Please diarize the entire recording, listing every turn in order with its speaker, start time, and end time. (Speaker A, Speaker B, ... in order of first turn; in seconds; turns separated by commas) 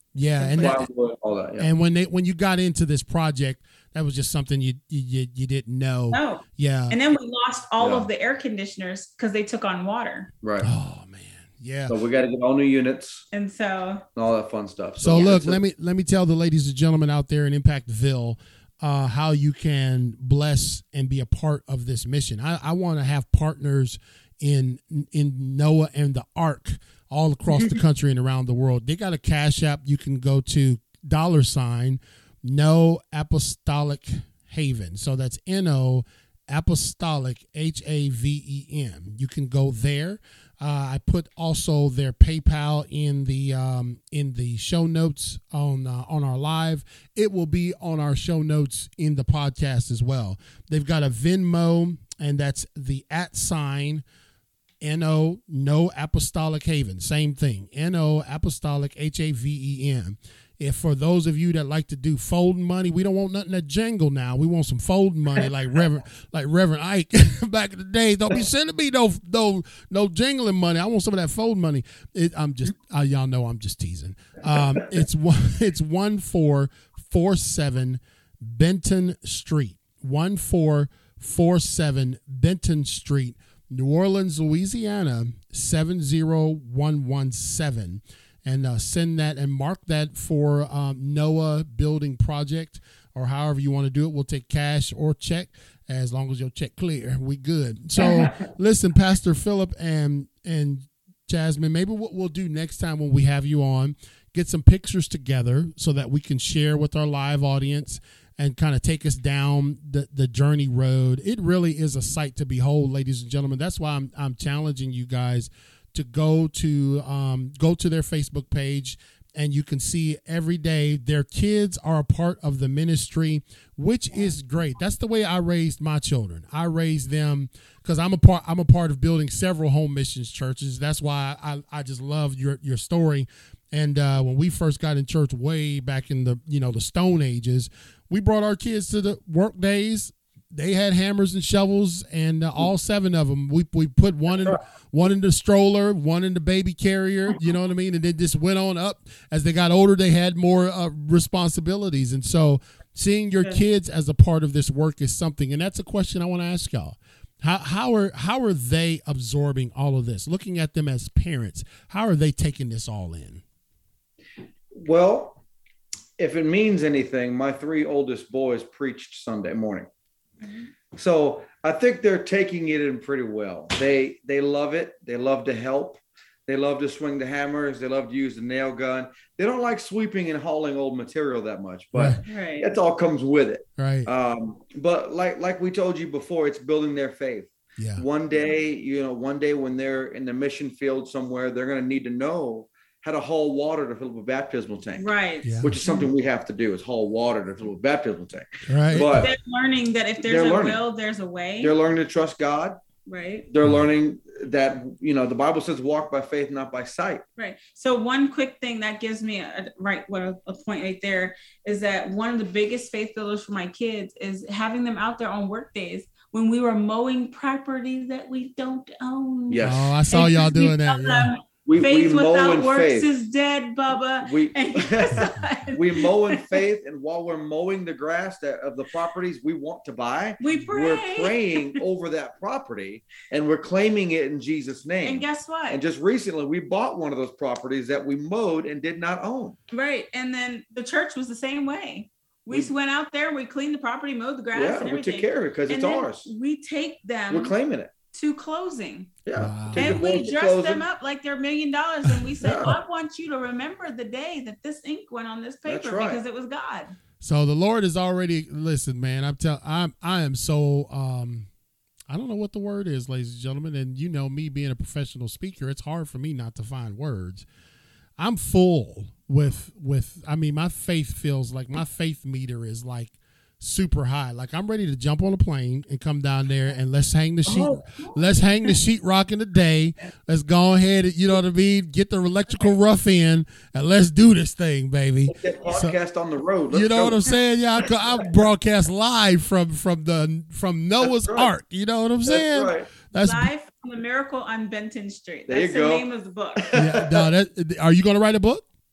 Speaker A: 0.1-0.9, Speaker B: 0.4-0.8, Speaker C: 0.6-1.7, Speaker A: 1.6-7.0, Speaker B: 6.1-10.3, Speaker C: 7.8-8.1, Speaker C: 10.4-10.7, Speaker A: 10.6-12.0, Speaker C: 11.9-13.2, Speaker B: 13.3-14.1, Speaker C: 14.2-15.6, Speaker A: 15.0-54.0, Speaker A: 54.8-163.4, Speaker C: 164.7-165.4, Speaker C: 166.2-169.9, Speaker B: 170.4-170.7, Speaker C: 170.9-195.1, Speaker A: 181.9-182.2, Speaker B: 182.2-182.7, Speaker A: 183.8-184.1, Speaker A: 187.8-188.0, Speaker B: 195.0-196.1, Speaker A: 195.4-195.8, Speaker C: 195.6-199.3, Speaker A: 198.7-199.3, Speaker B: 199.1-201.8, Speaker C: 200.2-200.8, Speaker C: 201.6-202.8, Speaker B: 203.1-203.5, Speaker C: 203.5-207.2, Speaker B: 207.4-226.6, Speaker C: 219.5-219.9, Speaker A: 219.6-221.4, Speaker C: 221.6-223.1, Speaker C: 224.2-239.6, Speaker B: 230.4-231.8, Speaker B: 235.0-235.8, Speaker B: 239.7-247.6, Speaker C: 244.5-246.3, Speaker C: 247.3-247.9, Speaker B: 248.1-249.1, Speaker C: 249.2-250.9, Speaker A: 249.4-250.0, Speaker B: 249.7-256.9, Speaker C: 252.4-252.8, Speaker C: 255.7-256.2, Speaker A: 257.2-261.5, Speaker A: 262.1-267.5, Speaker A: 268.2-285.9, Speaker C: 277.5-278.1, Speaker C: 285.3-287.4, Speaker A: 286.7-293.5, Speaker C: 291.0-291.5, Speaker C: 292.3-292.9, Speaker B: 293.1-296.8, Speaker C: 295.5-296.1, Speaker C: 296.6-297.3, Speaker A: 296.8-298.6